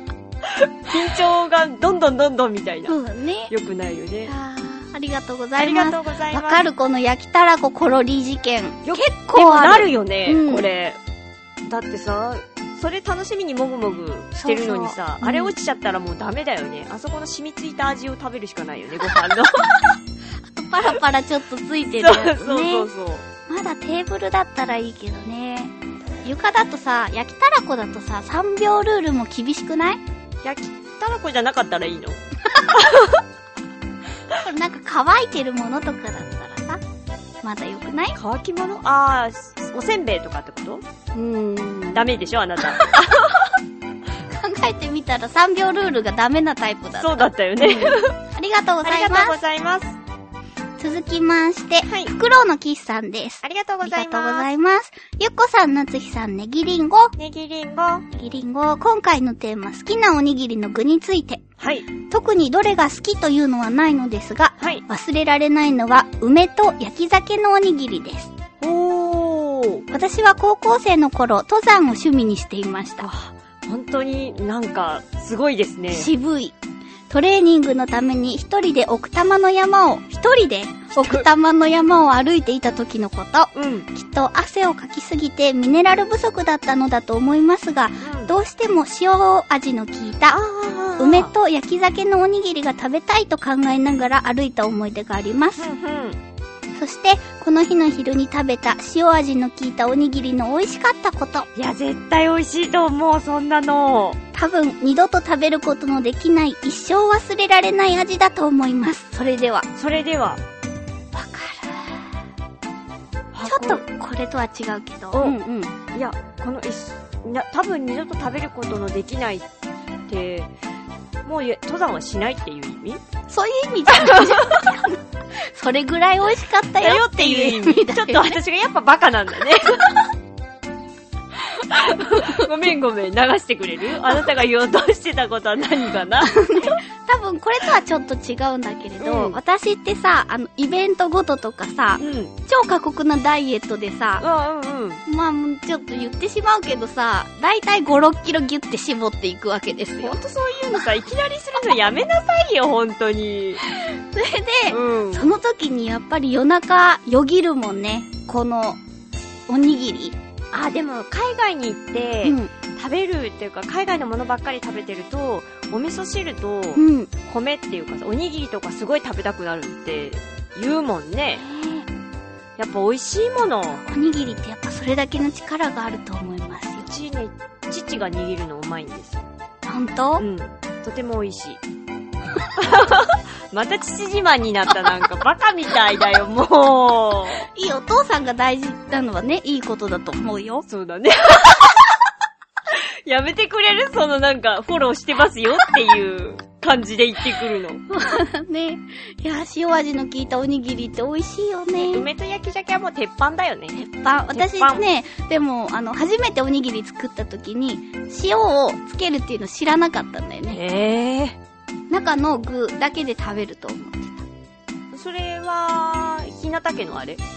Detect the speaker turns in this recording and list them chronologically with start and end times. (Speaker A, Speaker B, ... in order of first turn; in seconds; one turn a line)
Speaker A: 0.5-3.0
Speaker B: 2.9-3.5
Speaker A: 3.5-4.3
Speaker B: 4.2-10.7
Speaker A: 5.6-6.6
Speaker A: 8.8-11.0
Speaker A: 11.7-19.9
Speaker B: 14.4-15.5
Speaker B: 20.4-22.9
Speaker A: 22.0-23.2
Speaker B: 23.5-25.7
Speaker B: 26.2-30.0
Speaker A: 30.4-33.2
Speaker B: 34.3-36.8
Speaker B: 37.4-38.2
Speaker A: 38.1-40.8
Speaker B: 41.1-42.1
Speaker A: 41.9-43.4
Speaker B: 42.6-43.0
Speaker B: 44.3-49.4
Speaker A: 47.0-48.1
Speaker A: 48.8-50.0
Speaker B: 50.8-57.1
Speaker A: 51.9-52.1
Speaker A: 53.4-54.5
Speaker A: 57.2-58.0
Speaker B: 58.1-61.4
Speaker A: 61.6-61.9
Speaker B: 62.0-68.3
Speaker A: 64.6-64.8
Speaker A: 68.6-69.9
Speaker B: 69.9-73.1
Speaker A: 73.0-76.1
Speaker B: 75.9-76.5
Speaker B: 77.1-90.4
Speaker A: 81.0-81.3
Speaker A: 83.5-83.9
Speaker A: 88.0-88.3
Speaker A: 90.3-91.3
Speaker B: 91.0-95.7
Speaker A: 95.6-96.2
Speaker B: 96.7-101.5
Speaker A: 101.5-104.2
Speaker B: 104.3-109.7
Speaker A: 109.7-110.4
Speaker B: 111.1-112.1
Speaker A: 113.3-113.8
Speaker B: 113.4-115.7
Speaker A: 115.1-115.4
Speaker A: 115.9-119.5
Speaker A: 120.1-120.5
Speaker A: 121.2-123.0
Speaker B: 123.3-128.4
Speaker A: 123.9-124.6
Speaker A: 126.8-130.0
Speaker A: 131.5-136.8
Speaker B: 132.1-132.5
Speaker B: 136.3-144.2
Speaker A: 139.0-139.4
Speaker A: 142.0-142.3
Speaker A: 144.2-145.0
Speaker B: 145.1-150.2
Speaker A: 150.0-153.6
Speaker B: 153.7-158.8
Speaker A: 154.7-155.3
Speaker B: 159.5-160.2
Speaker A: 160.5-171.4
Speaker B: 162.2-162.5
Speaker B: 166.8-167.1
Speaker B: 171.3-171.9
Speaker A: 172.6-173.8
Speaker B: 173.8-176.9
Speaker A: 176.9-179.3
Speaker B: 179.7-180.2
Speaker A: 180.2-181.6
Speaker A: 182.6-187.5
Speaker B: 187.5-190.6
Speaker A: 190.7-191.9
Speaker A: 192.7-197.8
Speaker B: 197.9-202.1
Speaker A: 201.7-203.8
Speaker B: 203.7-210.6
Speaker A: 204.3-204.8
Speaker A: 210.5-211.4
Speaker B: 211.9-214.3
Speaker A: 214.9-217.2